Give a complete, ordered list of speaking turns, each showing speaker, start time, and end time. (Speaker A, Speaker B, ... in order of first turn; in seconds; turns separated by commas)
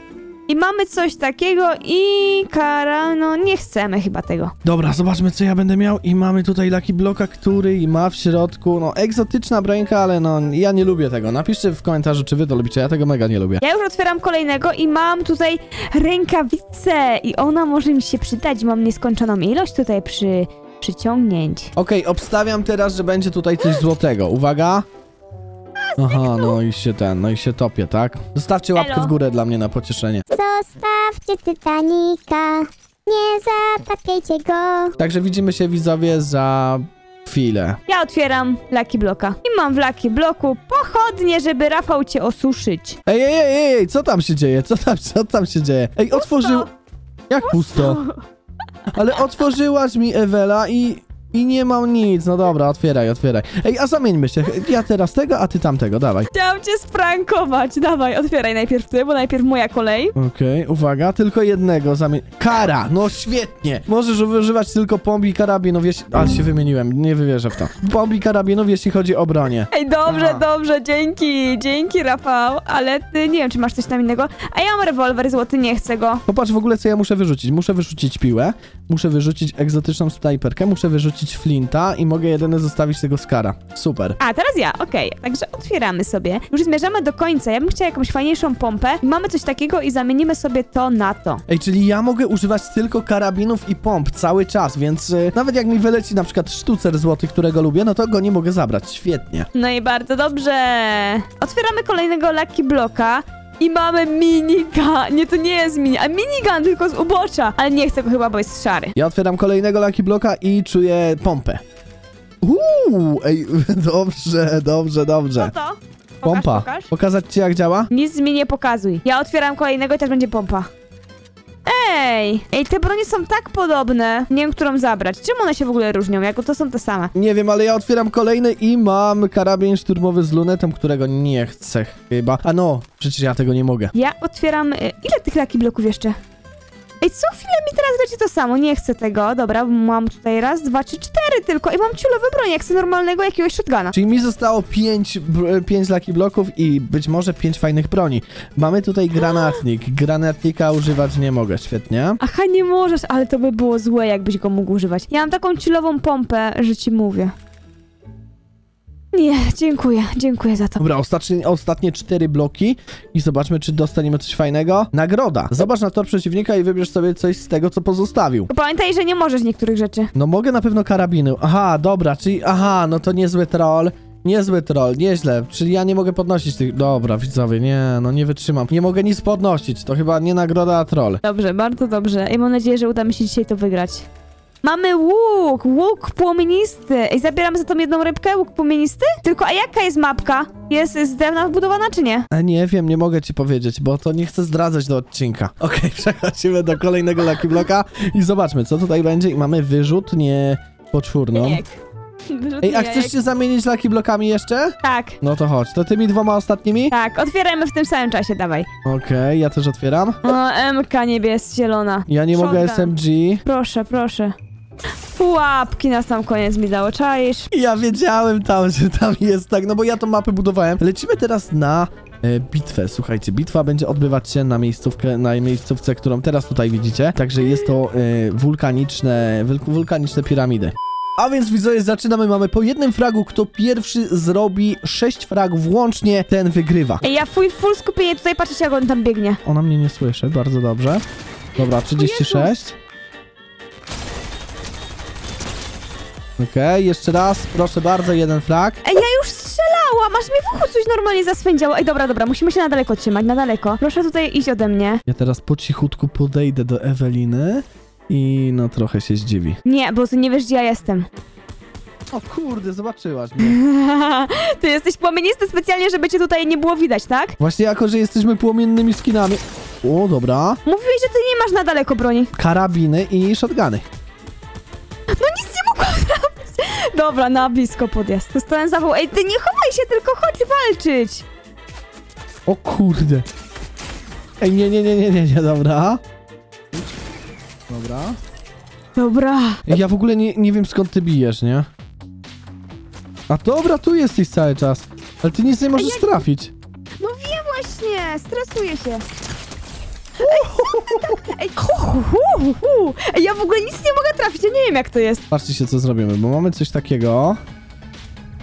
Speaker A: 0.5-4.5, Speaker B: 4.6-13.6, Speaker A: 13.6-21.7, Speaker B: 21.8-24.9, Speaker A: 25.9-26.6, Speaker B: 26.0-30.2, Speaker A: 28.8-29.1, Speaker C: 30.3-34.9, Speaker B: 35.0-37.8, Speaker A: 37.9-43.0, Speaker B: 43.1-46.7, Speaker A: 46.1-46.7, Speaker B: 47.3-48.0, Speaker A: 47.4-48.2, Speaker B: 48.9-56.3, Speaker A: 56.3-60.1, Speaker B: 60.2-70.4, Speaker A: 69.7-76.2, Speaker B: 76.3-84.2, Speaker A: 84.2-91.4, Speaker B: 91.5-99.5, Speaker A: 99.5-108.9, Speaker B: 109.0-111.6, Speaker B: 112.4-115.5, Speaker A: 115.4-116.9, Speaker B: 116.2-117.9, Speaker A: 117.9-120.7, Speaker A: 121.7-127.1, Speaker B: 127.2-133.9, Speaker A: 133.9-136.2, Speaker A: 137.0-143.9, Speaker B: 143.9-152.2, Speaker A: 149.2-149.6, Speaker A: 152.2-157.3, Speaker A: 159.1-160.8, Speaker B: 160.8-168.5, Speaker A: 168.5-170.1, Speaker B: 170.2-181.2, Speaker A: 181.2-184.1, Speaker A: 184.6-192.3, Speaker B: 192.3-201.6, Speaker A: 201.3-203.2, Speaker B: 202.6-206.9, Speaker A: 204.8-205.2, Speaker A: 206.9-208.7, Speaker B: 208.8-210.3, Speaker A: 210.2-214.3, Speaker B: 212.1-213.4, Speaker A: 215.2-217.5, Speaker B: 217.5-237.1, Speaker A: 237.0-239.4, Speaker B: 239.4-241.1, Speaker B: 241.6-242.8, Speaker A: 241.9-242.5, Speaker B: 246.4-248.8, Speaker A: 248.8-255.0, Speaker B: 255.1-259.6, Speaker A: 259.6-261.1, Speaker B: 262.1-263.6, Speaker A: 263.4-267.4, Speaker B: 267.4-270.6, Speaker A: 270.6-272.3, Speaker B: 272.4-273.8, Speaker A: 275.2-281.2, Speaker B: 282.5-283.2, Speaker B: 284.4-286.0, Speaker B: 287.7-288.2, Speaker A: 289.0-289.6, Speaker B: 289.7-291.7, Speaker B: 293.3-296.5, Speaker A: 295.7-296.3, Speaker A: 297.0-299.0, Speaker A: 300.2-305.2, Speaker B: 300.2-301.3, Speaker B: 305.3-307.4